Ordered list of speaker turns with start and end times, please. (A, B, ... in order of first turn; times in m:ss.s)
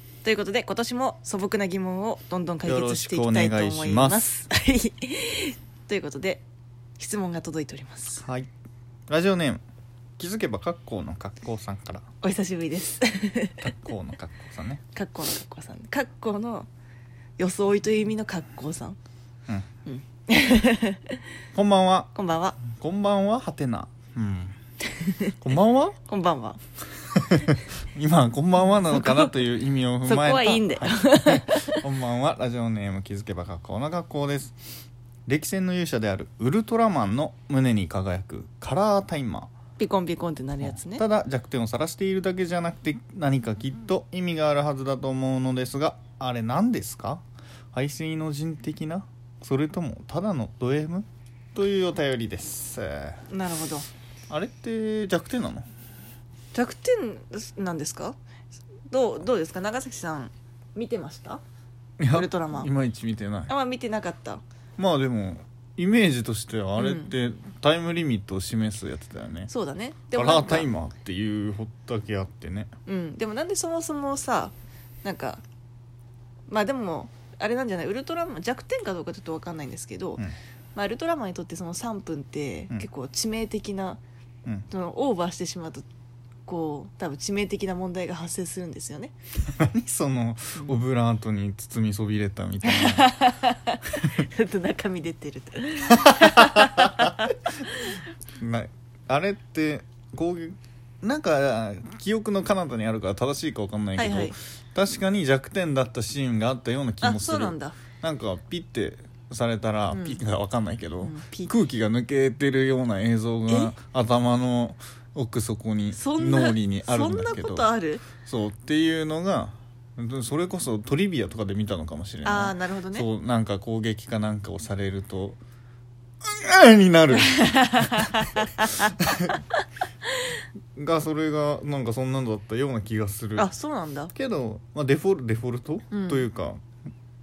0:00.2-0:06.4 A
0:02.6-0:04.4 B
0:07.0-0:08.2 A
0:08.2-0:08.5 B
0:09.1-0:09.6 B
0:10.2-0:12.0 B
0:12.2-0:13.7 A
0:13.6-0:14.8 B
0:14.9-0:16.7 A
0:17.4-0:19.0 A
0:19.9-0:21.2 A
0:21.5-0:24.6 B
0:22.1-0:22.6 A
0:24.9-0:25.4 A
0:25.4-0:26.0 B
0:26.0-0:26.6 A
0:27.1-0:34.6 B
0:28.8-0:29.4 A
0:30.0-0:31.8 A
0:35.3-0:39.5 B
0:39.8-0:41.0 A
0:40.6-0:47.2 B
0:47.7-0:53.2 B
0:53.3-0:53.9 A
0:54.3-0:55.7 B
0:56.5-0:58.2 A
0:58.9-1:01.4 A
1:02.0-1:03.5 B
1:02.1-1:02.7 A
1:03.5-1:04.4 A
1:04.8-1:09.5 B
1:06.8-1:07.1 A
1:09.5-1:10.7 A
1:10.1-1:12.7 B
1:12.9-1:15.4 A
1:16.5-1:20.2 A
1:20.8-1:24.0 A
1:24.7-1:25.9 A
1:26.4-1:29.1 A
1:29.6-1:33.1 B
1:32.6-1:38.0 A
1:35.9-1:37.1 B
1:38.4-2:05.4 B
1:44.0-1:44.4 A
1:47.0-1:47.8 A
1:49.9-1:50.2 A
1:51.0-1:51.5 A
1:53.5-1:53.7 A
1:55.9-1:58.0 A
2:02.2-2:03.1 A
2:06.2-2:09.4 B
2:07.4-2:08.8 A
2:10.8-2:13.5 B
2:13.4-2:14.1 A
2:14.1-2:16.6 B
2:15.9-2:16.2 A